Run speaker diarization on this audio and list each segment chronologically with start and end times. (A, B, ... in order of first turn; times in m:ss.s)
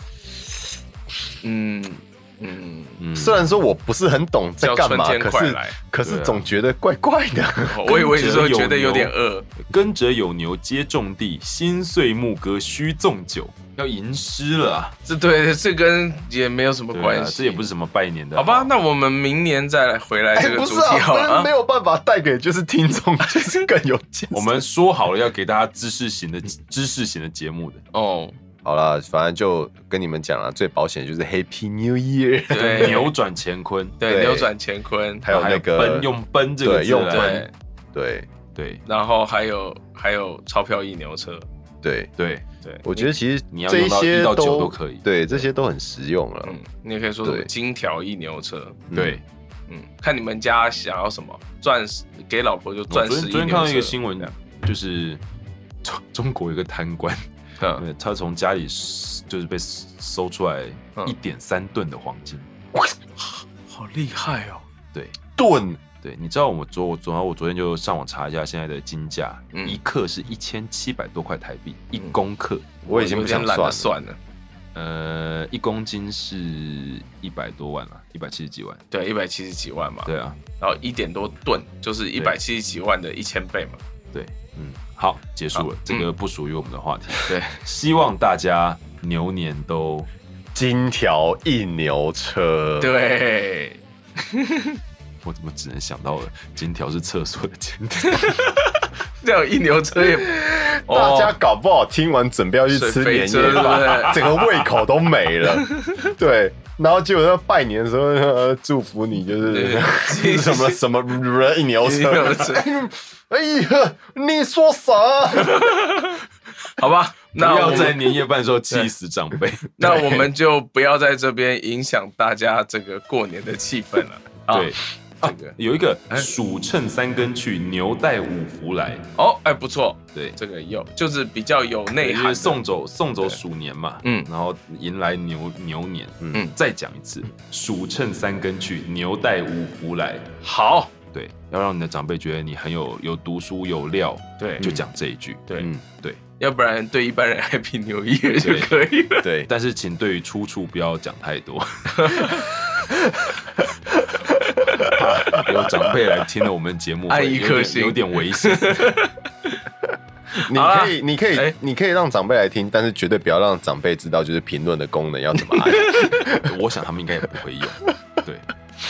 0:01.4-0:03.0 A
0:03.0-0:03.5 B
0:03.2-0:07.8 C
0:04.6-0:05.8 A
0:06.0-0:06.5 B
0:07.6-0:09.5 A
0:07.9-0:15.0 B
0:15.0-0:17.6 A
0:16.9-0:18.7 B
0:18.4-0:21.5 A
0:20.4-0:24.6 C
0:23.3-0:23.6 A
0:24.3-0:27.8 B
0:27.9-0:28.4 A
0:28.6-0:33.1 C
0:32.5-0:33.1 A
0:32.8-0:34.0 B
0:34.0-0:35.4 A
0:34.0-0:34.5 C
0:35.2-0:36.1 C
0:35.3-0:37.5 B
0:36.6-0:38.3 C
0:37.1-0:37.5 A
0:38.6-0:38.8 B
0:38.9-0:41.5 A
0:41.8-0:42.1 C
0:42.2-0:42.4 B
0:42.6-0:43.1 A
0:42.8-0:46.6 C
0:43.5-0:45.1 B
0:46.4-0:48.8 A
0:47.2-0:47.5 C
0:48.9-0:49.2 C
0:48.9-0:49.2 B
0:49.7-0:54.3 A
0:52.9-0:55.2 B
0:55.8-0:57.3 B
0:57.8-1:02.5 B
1:03.2-1:04.6 A
1:05.4-1:05.8 C
1:06.0-1:12.8 B
1:09.5-1:09.8 A
1:12.8-1:14.2 A
1:12.9-1:13.9 C
1:14.8-1:18.8 B
1:18.9-1:23.8 A
1:20.0-1:20.4 B
1:24.1-1:30.1 B
1:25.6-1:26.1 A
1:27.3-1:27.6 A
1:30.5-1:32.9 C
1:32.8-1:34.8 A
1:35.2-1:38.6 B
1:38.1-1:41.4 A
1:40.2-1:55.9 C
1:42.7-1:44.4 A
1:45.5-1:46.1 A
1:49.5-1:50.8 A
1:51.8-1:52.7 A
1:55.3-1:58.1 A
1:57.4-2:00.3 B
1:59.8-2:05.6 A
2:04.5-2:09.0 B
2:09.2-2:12.6 A
2:12.0-2:20.3 B
2:14.0-2:14.3 A
2:20.4-2:20.9 A
2:21.1-2:26.2 B
2:24.4-2:24.7 A
2:24.6-2:24.9 C
2:26.4-2:29.3 A
2:28.4-2:28.7 B
2:29.2-2:29.5 C
2:29.5-2:32.5 B
2:31.9-2:32.4 A
2:32.9-2:33.3 C
2:34.2-2:35.7 C
2:34.8-2:39.0 B
2:37.1-2:39.6 A
2:40.3-2:41.5 A
2:40.4-2:46.6 C
2:45.6-2:46.1 A
2:46.2-2:48.5 B